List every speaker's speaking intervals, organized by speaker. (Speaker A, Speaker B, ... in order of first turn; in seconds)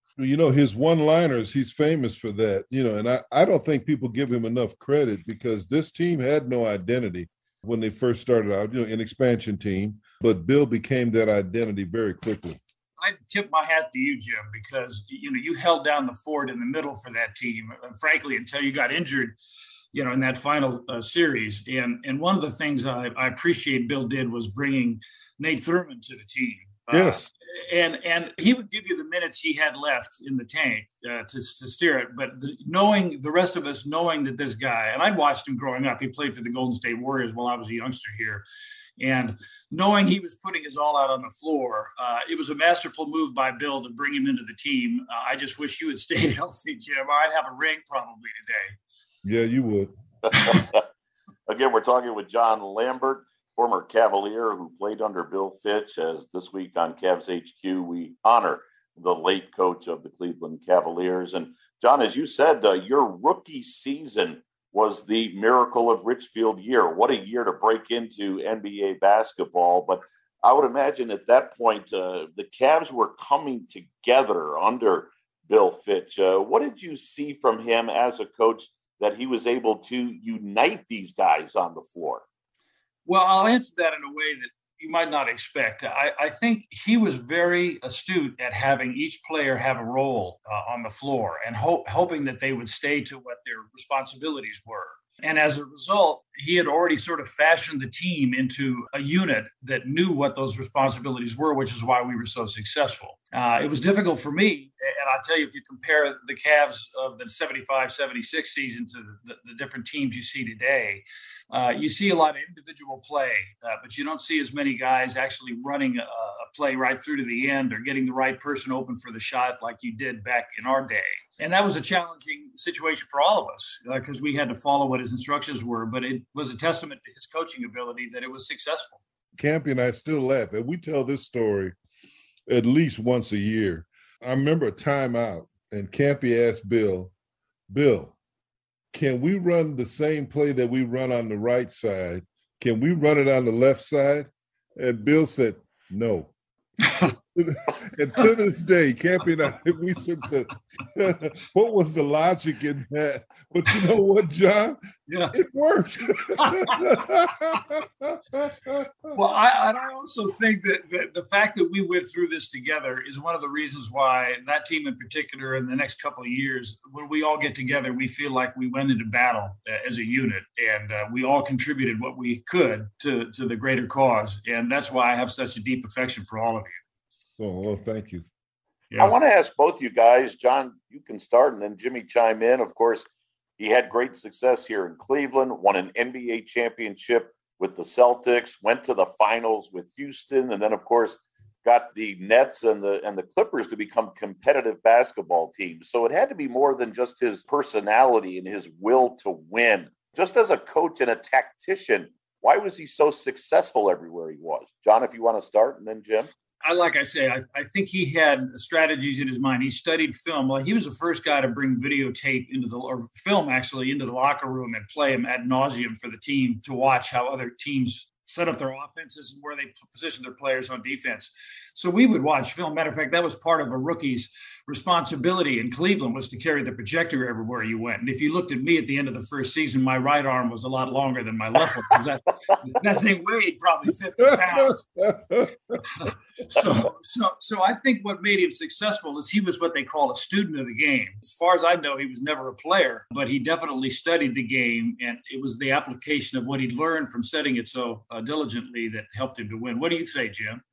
Speaker A: 0.2-12.6, 26.9-27.3, 49.2-49.9, 129.4-131.8, 132.5-137.1, 137.7-138.1, 138.9-146.3, 147.1-154.8, 155.3-159.1, 177.4-178.2, 235.0-235.8
Speaker B: 13.0-19.4, 19.9-38.4, 39.0-48.8, 83.0-129.0, 155.1-155.3, 156.4-156.8, 159.1-176.8, 206.6-234.8, 236.0-250.6
Speaker C: 50.5-50.8, 51.5-82.2, 179.0-183.1, 183.6-206.3